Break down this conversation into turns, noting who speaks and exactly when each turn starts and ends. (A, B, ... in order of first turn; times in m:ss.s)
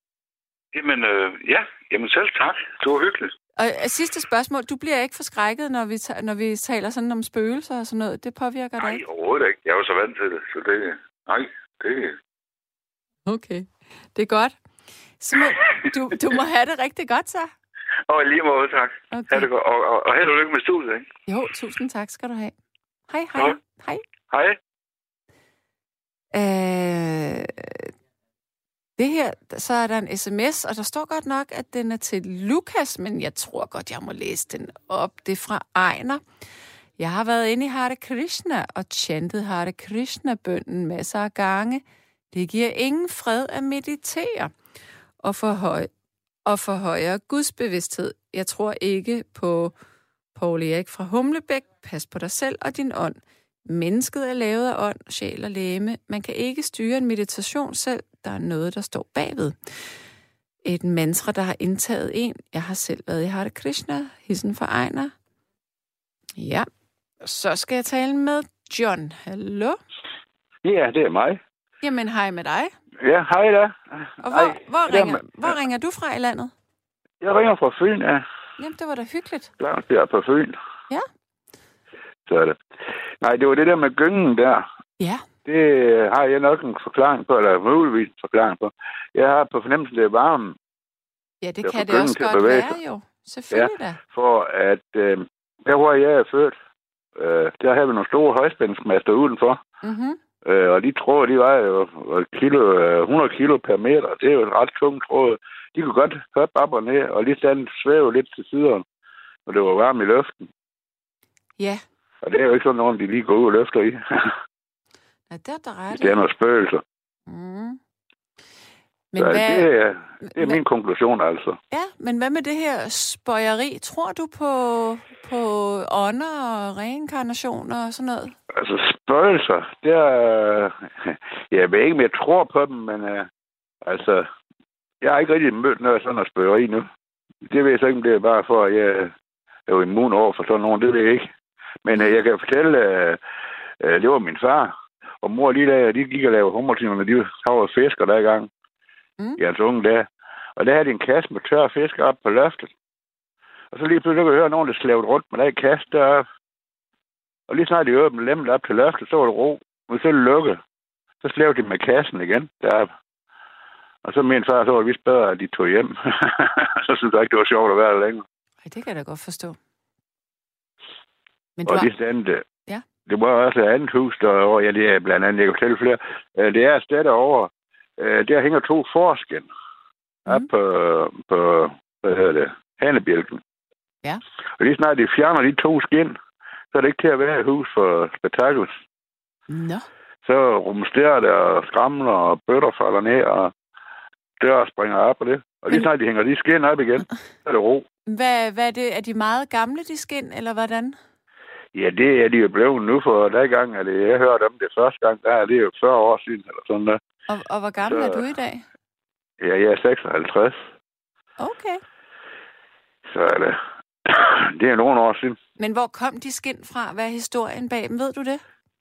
0:00.7-0:03.3 A
0:03.6-0:09.0 B
0:08.8-0:12.2 A
0:13.2-0:14.6 B
0:15.2-0:17.5 B
0:18.1-0:21.1 A
0:19.1-0:19.5 B
0:21.3-0:22.5 B
0:23.1-0:24.0 B
0:24.3-0:24.6 A
0:26.3-0:27.9 B
0:29.0-0:36.2 B
0:37.0-0:44.5 B
0:45.2-0:45.9 B
0:46.4-0:49.7 B
0:50.3-0:59.6 B
1:00.6-1:05.1 B
1:06.4-1:06.7 B
1:07.2-1:09.8 B
1:10.6-1:11.4 C
1:11.8-1:12.7 B
1:13.0-1:15.5 C
1:14.2-1:16.5 B
1:17.2-1:18.2 C
1:18.6-1:19.5 B
1:19.6-1:20.6 C
1:22.3-1:22.6 C
1:23.2-1:24.6 C
1:25.0-1:25.3 B
1:25.4-1:30.6 C
1:31.4-1:34.0 B
1:31.6-1:32.8 C
1:33.5-1:36.6 C
1:37.2-1:39.6 C
1:39.8-1:40.2 B
1:40.4-1:48.8 C
1:49.4-1:50.5 C
1:52.2-1:54.4 C
1:55.3-1:56.2 B
1:55.9-1:56.8 C
1:57.3-1:57.8 B
1:59.1-1:59.7 B
1:59.2-2:01.6 C
2:00.2-2:00.6 B
2:01.7-2:08.3 B
2:08.5-2:13.3 C
2:13.8-2:14.2 C
2:15.0-2:16.9 C
2:17.4-2:19.1 C
2:19.7-2:21.3 C
2:21.8-2:23.2 C
2:21.9-2:22.2 B
2:23.8-2:28.5 C
2:29.4-2:32.7 C
2:33.7-2:36.2 C
2:37.5-2:40.6 C
2:41.2-2:42.9 C
2:44.0-2:48.2 C
2:48.6-2:49.6 B
2:51.6-2:51.9 B
2:51.6-2:52.4 C
2:53.0-2:59.5 C
3:00.3-3:03.4 C
3:04.6-3:06.2 C
3:06.7-3:08.8 C
3:09.5-3:09.9 B
3:10.2-3:13.5 C
3:14.4-3:17.8 C
3:18.1-3:21.0 B
3:21.7-3:27.0 C
3:27.3-3:28.6 B
3:27.8-3:28.2 C
3:29.4-3:30.6 C
3:31.4-3:31.8 B
3:33.1-3:35.4 C
3:35.6-3:38.4 B